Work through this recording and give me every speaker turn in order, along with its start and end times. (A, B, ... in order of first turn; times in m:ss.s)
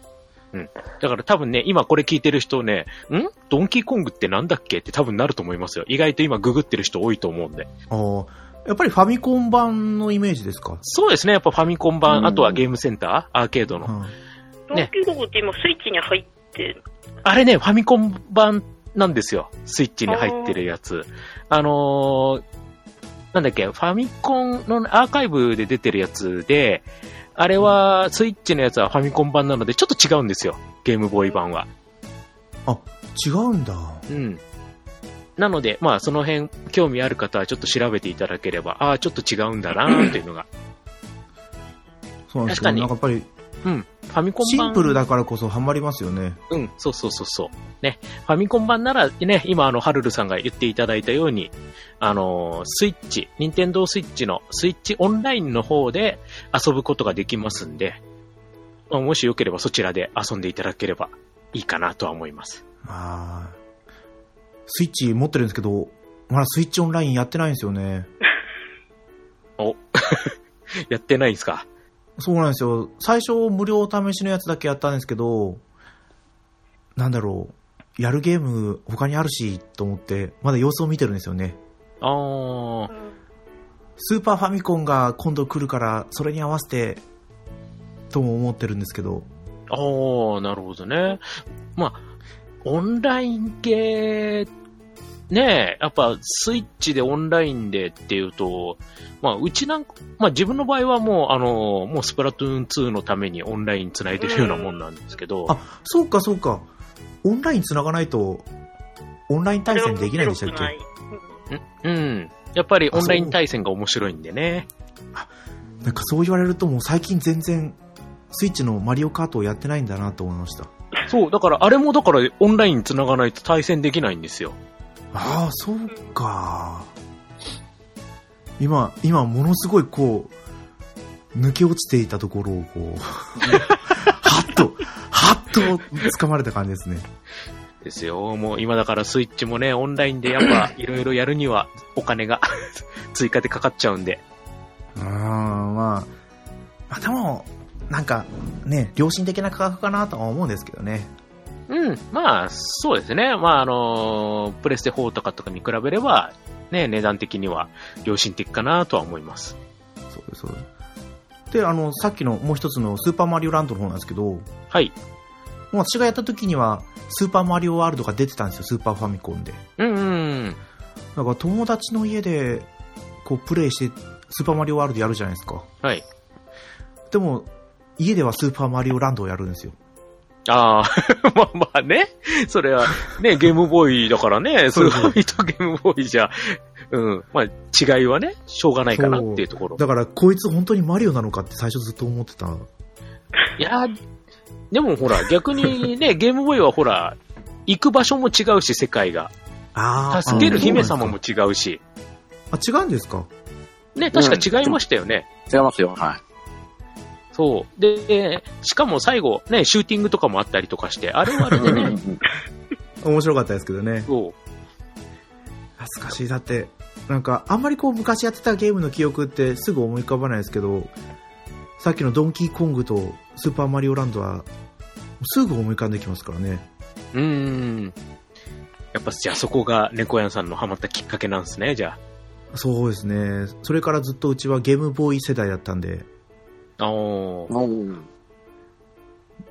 0:00.5-0:07.7 A
0:07.9-0:10.8 B
0:10.8-0:13.9 A
0:12.1-0:12.6 C
0:13.8-0:14.1 B
0:14.7-0:16.8 D
0:17.2-0:22.4 A
0:20.1-0:20.6 D
0:23.3-0:31.7 A
0:32.6-0:34.0 B
0:34.1-0:34.4 A
0:35.4-0:40.5 A
0:42.3-0:43.3 B
0:42.5-0:42.9 A
0:43.6-0:45.0 A
0:44.4-0:46.4 B
0:46.5-0:58.0 A
0:58.9-1:02.6 A
1:02.8-1:03.6 B
1:04.7-1:08.1 B
1:09.6-1:10.3 A
1:10.9-1:11.6 A
1:12.2-1:15.6 B
1:17.0-1:21.6 B
1:22.0-1:22.9 A
1:24.0-1:27.0 B
1:28.1-1:29.3 B
1:29.7-1:31.2 A
1:31.8-1:32.0 A
1:32.6-1:34.5 A
1:35.3-1:45.5 A
1:44.2-1:44.8 D
1:45.5-1:46.7 B
1:47.2-1:48.4 B
1:49.3-1:50.7 B
1:49.7-1:51.3 D
1:51.5-1:54.7 A
1:52.9-1:53.4 B
1:55.8-1:57.8 B
1:58.3-2:00.7 B
2:01.1-2:04.6 A
2:05.1-2:06.9 B
2:08.6-2:10.3 B
2:11.3-2:17.1 B
2:17.8-2:24.2 A
2:25.0-2:26.1 B
2:26.9-2:31.1 B
2:31.7-2:39.6 A
2:40.1-2:40.7 B
2:41.5-2:44.5 B
2:45.7-2:49.6 B
2:49.8-2:50.6 A
2:51.2-2:52.7 B
2:53.2-2:55.7 B
2:57.1-2:59.8 B
3:00.5-3:09.8 A
3:04.7-3:05.2 B
3:08.9-3:12.6 B
3:13.6-3:14.0 A
3:14.7-3:19.3 A
3:19.7-3:21.2 B
3:20.1-3:21.8 A
3:20.3-3:20.8 C
3:22.5-3:23.3 B
3:23.9-3:25.2 A
3:24.1-3:24.8 C
3:25.5-3:26.2 C
3:27.3-3:32.0 A
3:31.5-3:32.2 C
3:33.0-3:34.1 B
3:34.1-3:34.3 A
3:35.8-3:40.9 B
3:41.8-3:44.5 B
3:45.2-3:46.6 B
3:47.1-3:47.9 A
3:48.9-3:52.0 A
3:52.5-3:56.1 B
3:56.8-3:57.5 A
3:57.5-3:58.1 C